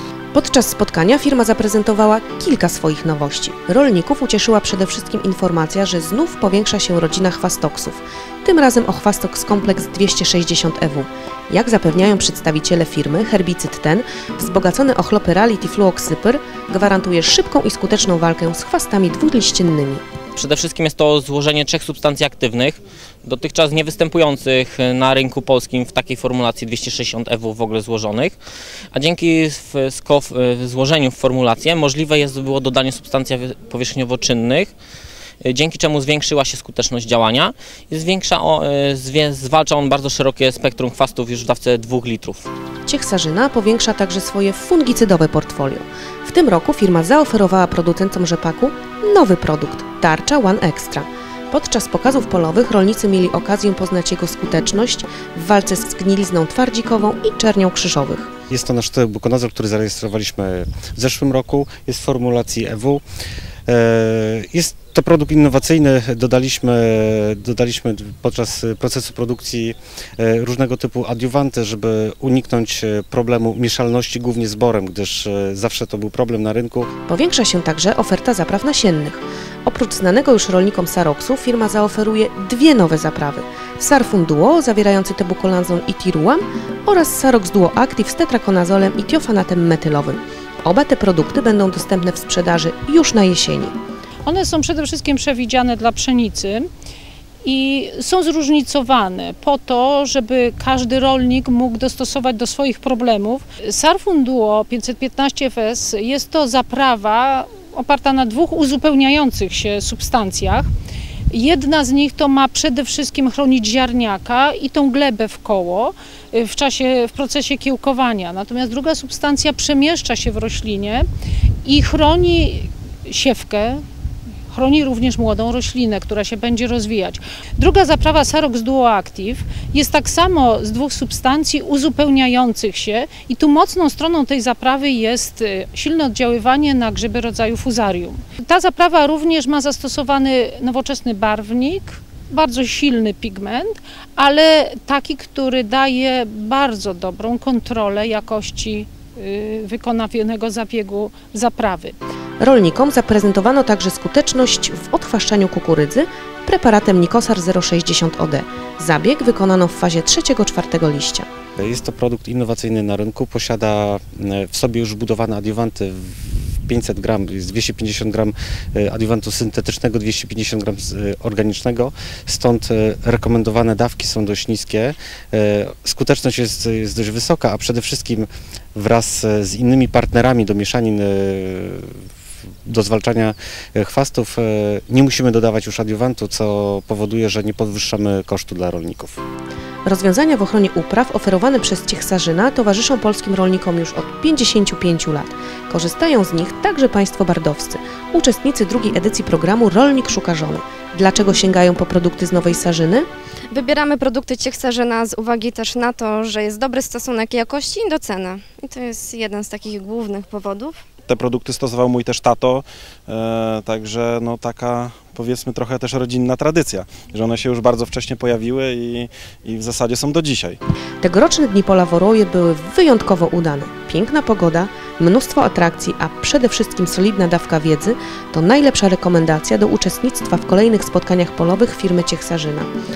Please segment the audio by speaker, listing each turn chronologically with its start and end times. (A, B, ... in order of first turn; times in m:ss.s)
0:00.3-0:20.0 A
0:20.4-0:28.4 B
0:28.9-0:34.7 B
0:35.4-0:42.4 B
0:42.8-0:58.3 A
0:58.5-1:03.0 C
1:03.7-1:16.9 C
1:17.1-1:33.7 A
1:34.2-1:36.7 D
1:37.4-1:50.7 D
1:51.3-2:01.1 D
2:01.6-2:03.8 D
2:04.5-2:32.0 D
2:32.4-2:41.3 A
2:41.6-3:01.9 C
3:02.6-3:09.2 C
3:09.8-3:23.0 A
3:23.5-3:30.8 E
3:31.1-3:40.6 F
3:41.0-3:52.7 A